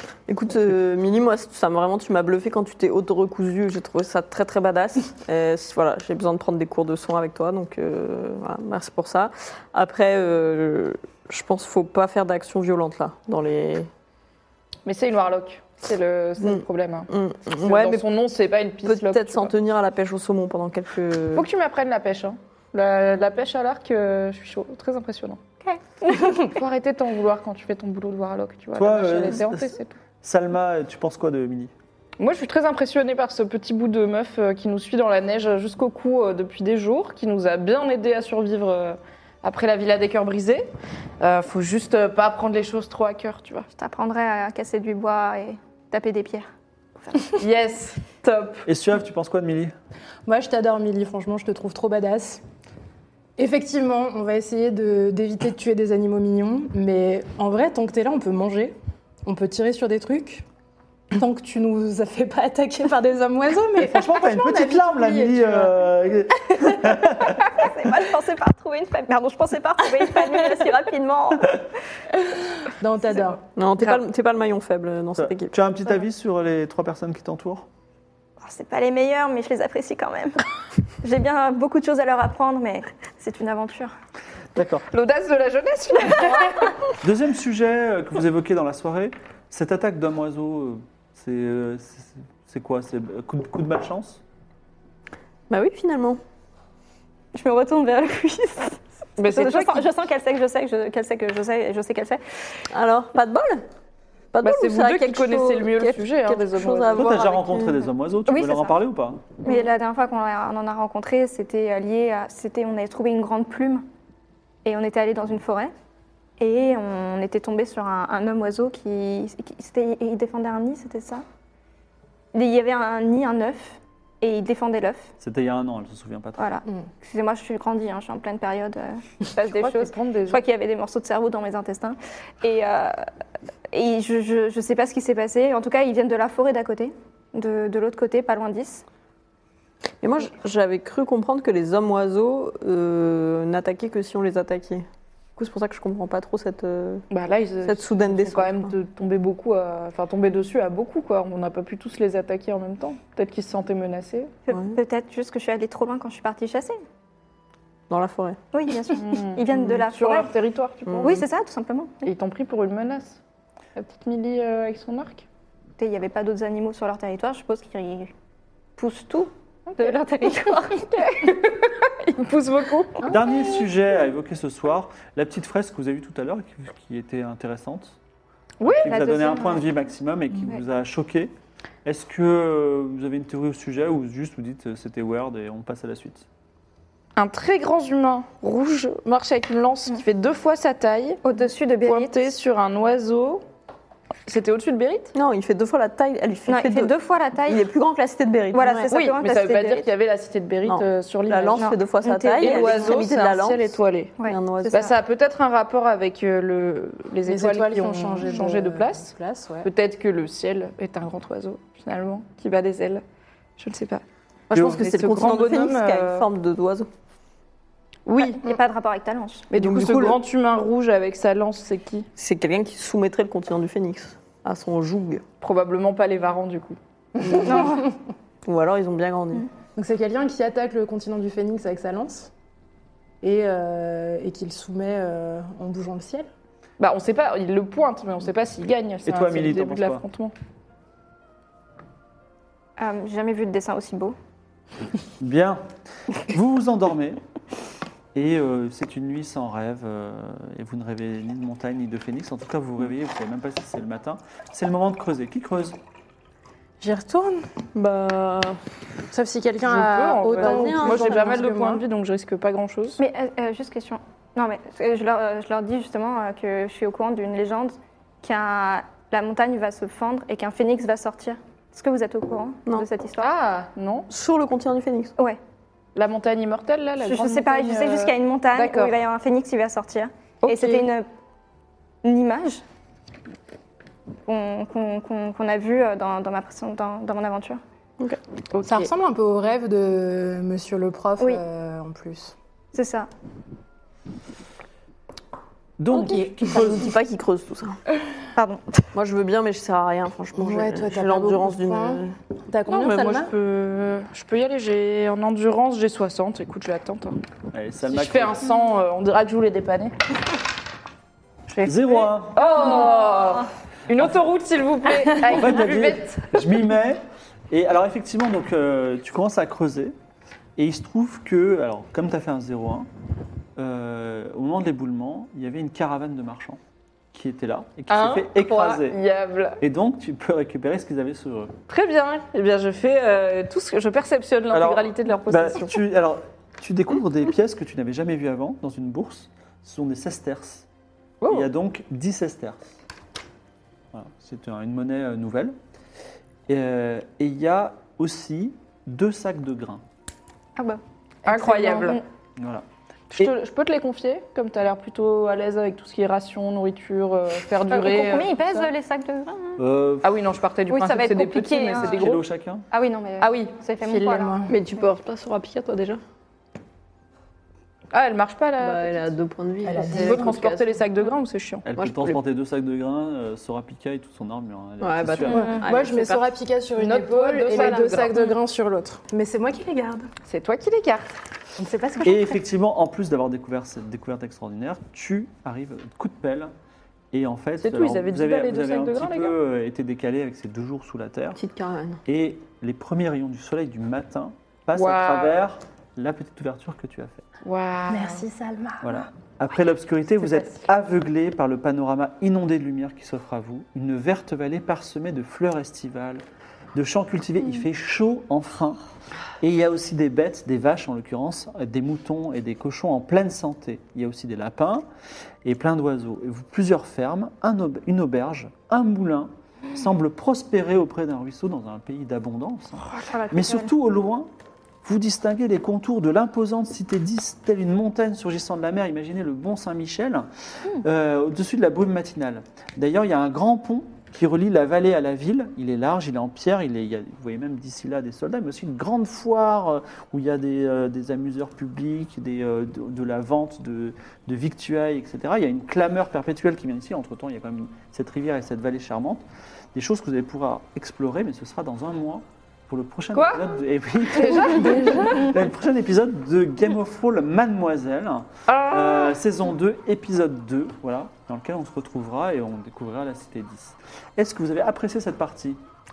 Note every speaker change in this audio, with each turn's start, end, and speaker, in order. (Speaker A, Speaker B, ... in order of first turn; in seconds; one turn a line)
Speaker A: 0.3-13.9
Speaker B: 14.9-17.1
Speaker A: 16.4-18.1
Speaker B: 17.6-19.5
Speaker A: 18.8-21.5
Speaker B: 21.4-25.4
Speaker C: 25.6-26.5
Speaker B: 26.4-29.9
Speaker D: 28.8-31.7
Speaker B: 32.2-43.7
Speaker C: 43.7-46.5
Speaker B: 47.4-48.7
Speaker D: 48.7-49.8
Speaker E: 50.3-52.4
Speaker E: 53.4-60.5
Speaker E: 61.1-65.9
Speaker D: 63.8-67.6
Speaker C: 67.2-71.7
Speaker E: 72.8-73.4
Speaker A: 73.5-75.6
Speaker D: 75.2-77.7
Speaker C: 78.4-80.5
Speaker C: 81.0-83.9
Speaker D: 84.5-84.9
Speaker B: 84.9-86.7
Speaker D: 87.0-94.2
Speaker A: 95.5-96.2
Speaker C: 97.3-102.2
Speaker B: 99.2-99.9
Speaker A: 102.7-103.7
Speaker A: 104.3-107.8
Speaker B: 104.4-107.3
Speaker D: 107.0-109.2
Speaker C: 108.3-108.8
Speaker C: 109.5-113.9
Speaker C: 114.7-115.7
Speaker C: 116.4-121.2
Speaker C: 122.3-125.1
Speaker D: 125.2-126.5
Speaker C: 126.4-133.1
Speaker B: 129.4-130.4
Speaker C: 133.7-138.8
Speaker A: 140.0-144.8
Speaker A: 145.4-147.1
Speaker B: 147.1-154.3
Speaker A: 147.7-148.7
Speaker C: 154.5-156.8
Speaker A: 154.5-154.8
Speaker A: 157.9-158.4
Speaker C: 158.5-160.3
Speaker B: 158.9-161.2
Speaker C: 161.0-162.1
Speaker B: 162.0-163.2
Speaker B: 163.8-165.3
Speaker C: 165.8-168.1
Speaker C: 168.8-170.9
Speaker B: 169.7-170.0
Speaker B: 170.8-173.0
Speaker D: 173.0-178.0
Speaker B: 178.6-179.4
Speaker D: 178.7-181.3
Speaker C: 178.8-179.7
Speaker D: 181.8-186.3
Speaker B: 187.2-191.2
Speaker C: 191.2-192.2
Speaker B: 191.8-193.4
Speaker B: 194.3-195.1
Speaker A: 195.1-196.9
Speaker C: 196.5-197.7
Speaker A: 197.5-198.9
Speaker C: 198.5-199.9
Speaker B: 198.9-201.7
Speaker A: 200.7-204.9
Speaker C: 201.6-203.0
Speaker B: 202.4-204.2
Speaker C: 204.2-204.9
Speaker B: 204.7-213.0
Speaker E: 207.3-209.7
Speaker B: 213.6-214.0
Speaker A: 214.5-216.9
Speaker D: 214.5-214.8
Speaker B: 214.8-216.3
Speaker B: 218.1-218.4
Speaker C: 218.4-219.5
Speaker B: 219.5-222.1
Speaker A: 219.6-220.2
Speaker A: 222.2-225.2
Speaker B: 225.4-226.8
Speaker E: 227.2-227.7
Speaker A: 227.3-227.7
Speaker C: 227.4-227.9
Speaker A: 228.4-229.5
Speaker E: 229.8-232.3
Speaker E: 233.2-236.3
Speaker B: 236.8-240.3
Speaker D: 239.1-240.0
Speaker C: 242.8-244.2
Speaker D: 245.2-245.6
Speaker D: 246.2-247.2
Speaker D: 248.1-255.8
Speaker E: 256.8-257.5
Speaker A: 257.7-258.6
Speaker E: 259.1-261.8
Speaker B: 259.6-263.0
Speaker A: 260.4-261.4
Speaker C: 263.0-273.3
Speaker B: 273.2-274.1
Speaker A: 274.1-275.1
Speaker B: 275.9-279.0
Speaker C: 277.0-281.1
Speaker E: 280.5-280.8
Speaker C: 282.0-282.6
Speaker C: 284.3-287.6
Speaker A: 288.0-288.9
Speaker E: 288.6-292.3
Speaker C: 292.7-293.1
Speaker D: 295.8-297.0
Speaker E: 295.9-296.8
Speaker A: 296.1-297.8
Speaker C: 298.4-298.9
Speaker A: 298.9-302.1
Speaker E: 300.4-303.3
Speaker B: 302.7-307.2
Speaker D: 307.5-308.4
Speaker B: 307.8-309.9
Speaker B: 311.6-316.5
Speaker D: 311.6-312.4
Speaker D: 313.9-314.3
Speaker D: 315.1-319.9
Speaker D: 320.6-322.9
Speaker D: 323.6-326.6
Speaker D: 327.1-329.0
Speaker B: 327.9-329.6
Speaker D: 329.6-331.5
Speaker B: 331.7-335.8
Speaker D: 334.5-340.7
Speaker B: 341.2-341.5
Speaker D: 341.3-342.8
Speaker D: 343.9-345.6
Speaker D: 346.5-349.8
Speaker C: 350.6-352.0
Speaker B: 351.2-352.0
Speaker D: 352.4-352.6
Speaker B: 353.1-358.7
Speaker C: 357.7-359.6
Speaker D: 359.6-360.3
Speaker B: 360.0-362.2
Speaker C: 360.7-362.0
Speaker D: 361.8-362.7
Speaker C: 362.7-364.4
Speaker B: 363.2-363.5
Speaker E: 363.8-364.5
Speaker A: 364.5-366.0
Speaker B: 367.9-369.1
Speaker A: 368.6-370.4
Speaker E: 369.6-370.7
Speaker B: 369.9-371.6
Speaker D: 371.6-375.5
Speaker A: 371.8-372.2
Speaker A: 374.8-376.3
Speaker E: 375.3-380.1
Speaker B: 376.8-378.2
Speaker A: 377.5-378.0
Speaker B: 380.3-381.1
Speaker E: 381.6-382.4
Speaker D: 382.0-386.5
Speaker D: 387.1-391.4
Speaker B: 387.6-389.4
Speaker A: 391.4-392.0
Speaker D: 392.1-397.2
Speaker B: 394.7-395.4
Speaker B: 397.4-398.2
Speaker E: 397.9-399.0
Speaker D: 398.8-406.2
Speaker D: 406.7-408.8
Speaker D: 409.4-414.9
Speaker D: 415.4-424.3
Speaker C: 422.9-423.7
Speaker D: 424.8-465.6
Speaker B: 453.1-453.5
Speaker B: 454.1-455.3
Speaker B: 458.5-459.2